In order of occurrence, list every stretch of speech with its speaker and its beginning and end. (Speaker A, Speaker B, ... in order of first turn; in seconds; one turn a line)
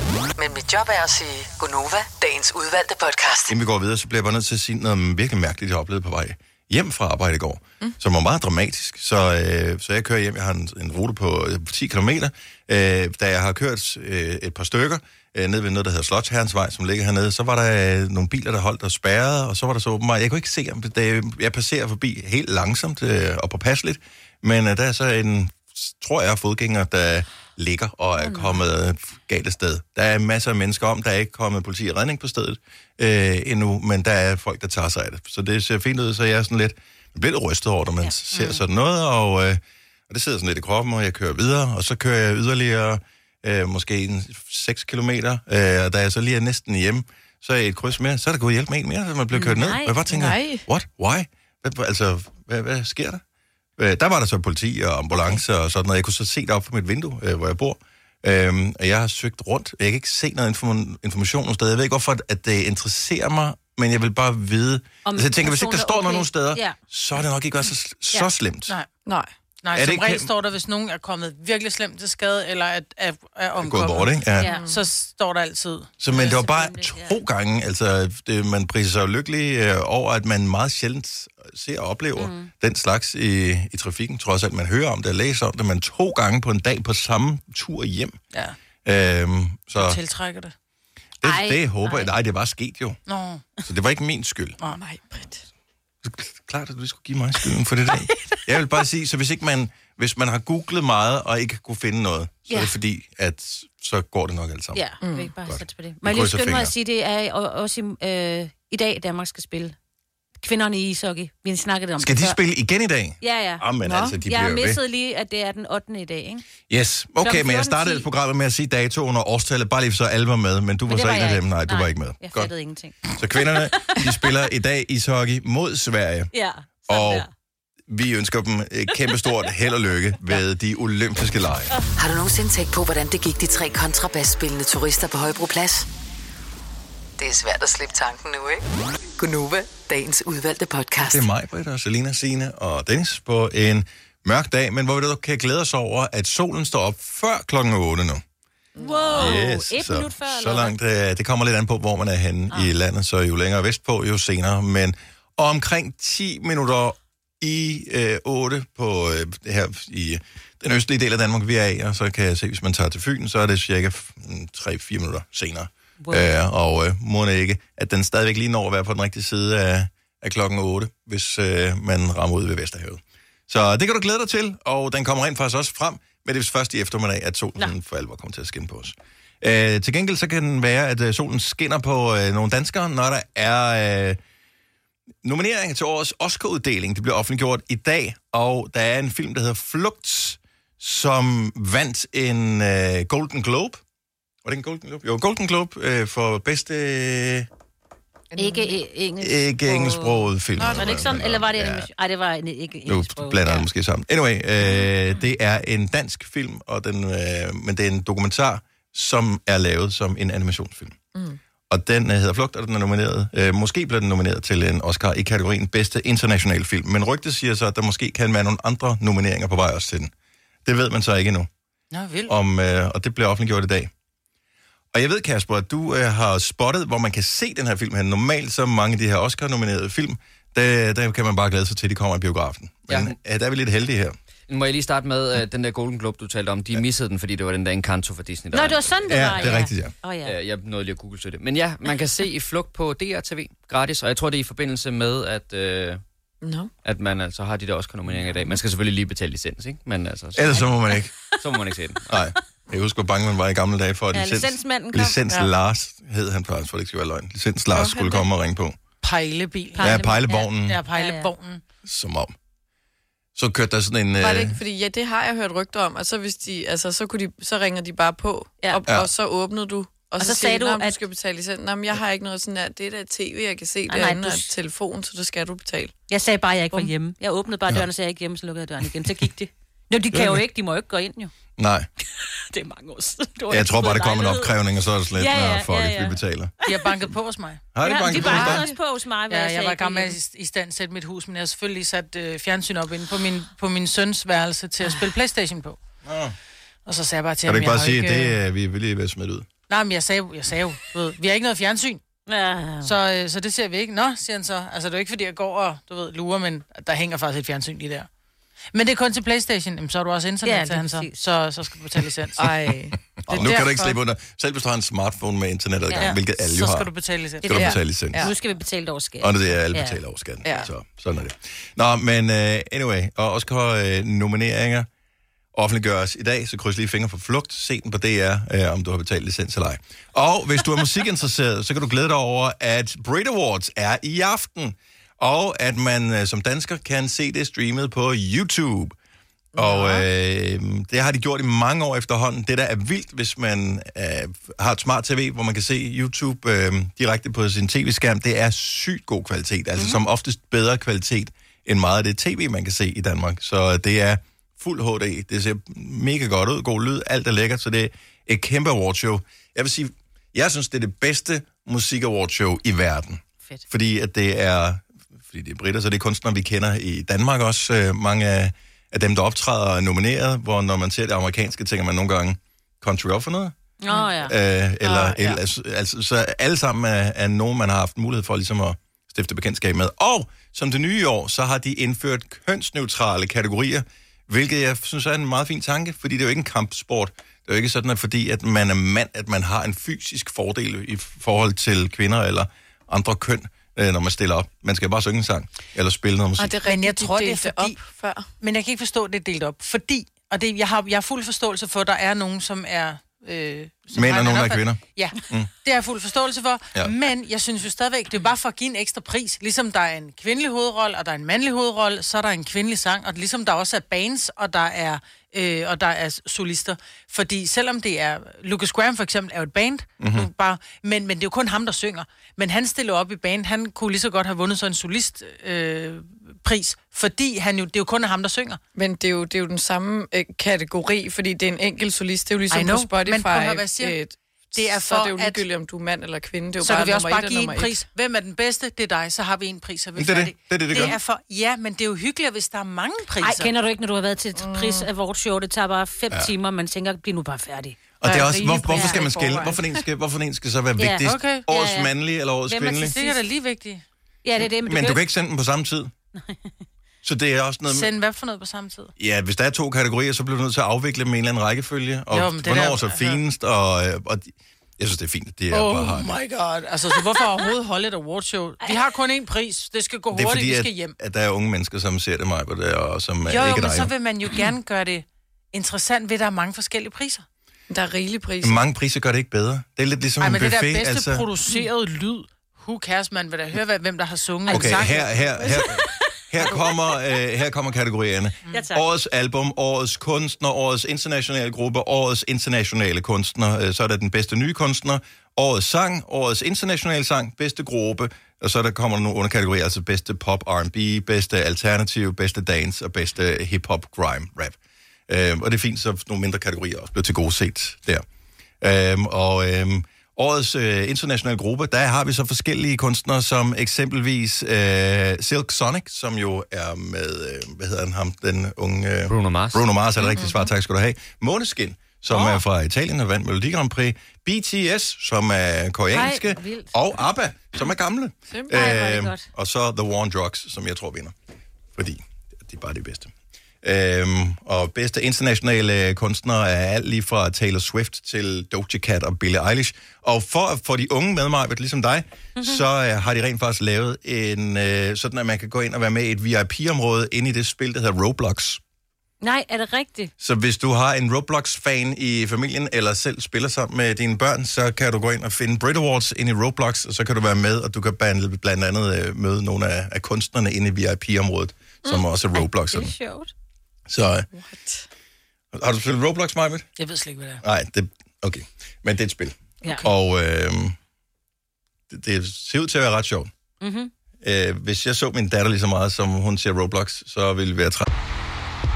Speaker A: 0.3-3.5
Speaker B: 3.5-53.2
Speaker C: 28.2-28.6
Speaker C: 38.0-38.6
Speaker C: 49.3-50.0
Speaker D: 50.1-50.6
Speaker B: 53.8-68.7
Speaker C: 65.0-66.8
Speaker E: 69.6-76.3
Speaker B: 69.7-70.3
Speaker B: 73.6-74.5
Speaker C: 74.4-74.7
Speaker D: 74.4-74.8
Speaker B: 76.0-88.2
Speaker C: 76.1-77.2
Speaker C: 82.2-82.5
Speaker B: 88.8-90.0
Speaker E: 89.8-90.5
Speaker B: 91.2-93.0
Speaker C: 91.2-92.1
Speaker E: 93.1-93.5
Speaker B: 93.6-94.6
Speaker D: 94.7-95.4
Speaker B: 96.0-104.8
Speaker C: 104.7-109.7
Speaker D: 105.0-105.3
Speaker B: 105.5-106.7
Speaker C: 110.4-112.4
Speaker B: 112.0-114.8
Speaker C: 113.2-113.7
Speaker D: 113.8-114.2
Speaker C: 114.2-116.5
Speaker B: 116.7-122.5
Speaker C: 117.2-118.1
Speaker C: 120.9-124.0
Speaker B: 123.1-126.3
Speaker C: 126.3-127.3
Speaker B: 126.9-127.3
Speaker B: 127.9-131.7
Speaker A: 131.9-135.9
Speaker A: 137.2-138.6
Speaker A: 139.2-141.3
Speaker B: 141.0-148.2
Speaker D: 148.8-149.4
Speaker C: 148.8-150.7
Speaker B: 149.1-184.2
Speaker C: 166.0-166.3
Speaker B: 185.2-193.8
Speaker B: 194.4-197.5
Speaker D: 198.3-198.7
Speaker C: 198.4-203.7
Speaker B: 199.2-201.9
Speaker B: 202.8-211.0
Speaker D: 211.1-211.4
Speaker B: 211.7-220.1
Speaker B: 220.6-221.5
Speaker E: 221.9-222.3
Speaker B: 222.3-223.9
Speaker B: 224.9-234.2
Speaker F: 232.9-233.1
Speaker F: 234.5-239.5
Speaker C: 238.5-240.3
Speaker B: 239.1-239.9
Speaker F: 240.2-246.0
Speaker D: 246.4-246.7
Speaker F: 246.8-250.7
Speaker B: 250.3-251.1
Speaker F: 251.4-252.1
Speaker B: 252.1-258.8
Speaker C: 254.1-255.2
Speaker D: 257.7-258.3
Speaker E: 259.0-261.6
Speaker C: 259.8-261.3
Speaker B: 259.8-260.8
Speaker B: 261.8-262.3
Speaker B: 263.3-264.6
Speaker D: 264.2-275.9
Speaker C: 270.2-271.0
Speaker C: 273.9-274.5
Speaker C: 276.1-281.3
Speaker B: 280.1-280.4
Speaker B: 281.6-281.9
Speaker C: 282.5-284.5
Speaker B: 283.5-286.5
Speaker C: 285.2-286.8
Speaker E: 286.6-288.7
Speaker B: 287.7-288.7
Speaker C: 287.8-290.1
Speaker E: 289.3-295.8
Speaker B: 296.0-296.4
Speaker E: 296.9-298.4
Speaker B: 297.4-299.5
Speaker E: 299.7-302.0
Speaker C: 302.3-302.9
Speaker E: 302.8-308.1
Speaker E: 308.7-312.4
Speaker C: 310.4-311.1
Speaker D: 312.4-313.9
Speaker B: 313.2-316.9
Speaker E: 313.3-313.9
Speaker E: 316.0-317.7
Speaker C: 317.4-320.0
Speaker B: 317.4-318.3
Speaker D: 317.5-318.3
Speaker B: 319.2-324.9
Speaker D: 320.4-320.7
Speaker B: 325.5-338.9
Speaker D: 339.6-340.0
Speaker B: 339.6-373.5
Speaker C: 373.8-374.3
Speaker B: 374.2-396.6
Speaker D: 396.4-398.3
Speaker E: 396.6-397.8
Speaker E: 398.4-428.6
Speaker B: 403.9-405.5
Speaker B: 420.0-420.3
Speaker D: 428.7-437.8
Speaker E: 432.5-434.0
Speaker E: 434.5-435.4
Speaker E: 436.6-443.5
Speaker B: 439.9-441.0
Speaker C: 443.2-447.8
Speaker D: 444.3-444.9
Speaker B: 448.0-453.0
Speaker E: 448.0-449.6
Speaker C: 448.7-449.1
Speaker C: 450.8-451.9
Speaker E: 451.0-451.4
Speaker C: 452.5-453.2
Speaker E: 452.7-453.8
Speaker C: 454.2-455.0
Speaker B: 454.6-455.9
Speaker B: 457.0-457.9
Speaker E: 457.7-458.9
Speaker B: 459.0-466.1
Speaker E: 462.1-463.2
Speaker E: 465.5-470.9
Speaker B: 470.1-473.9
Speaker E: 473.2-477.2
Speaker D: 477.7-478.6
Speaker B: 478.4-481.3
Speaker E: 480.2-485.6
Speaker C: 484.5-485.9
Speaker B: 484.5-504.6
Speaker C: 488.5-488.8
Speaker B: 505.1-508.0
Speaker B: 508.6-531.1
Speaker F: 519.1-519.6
Speaker D: 520.1-520.4
Speaker C: 522.1-522.4
Speaker C: 525.9-526.7
Speaker C: 528.5-529.3
Speaker B: 531.7-533.1
Speaker B: 533.6-548.6
Speaker C: 549.2-550.1
Speaker B: 550.2-562.9
Speaker C: 562.3-563.3
Speaker B: 563.9-564.3
Speaker D: 564.3-564.9
Speaker B: 565.5-566.6
Speaker E: 566.8-567.4
Speaker B: 567.4-570.8
Speaker B: 571.9-573.3
Speaker C: 573.6-573.9
Speaker B: 574.2-577.9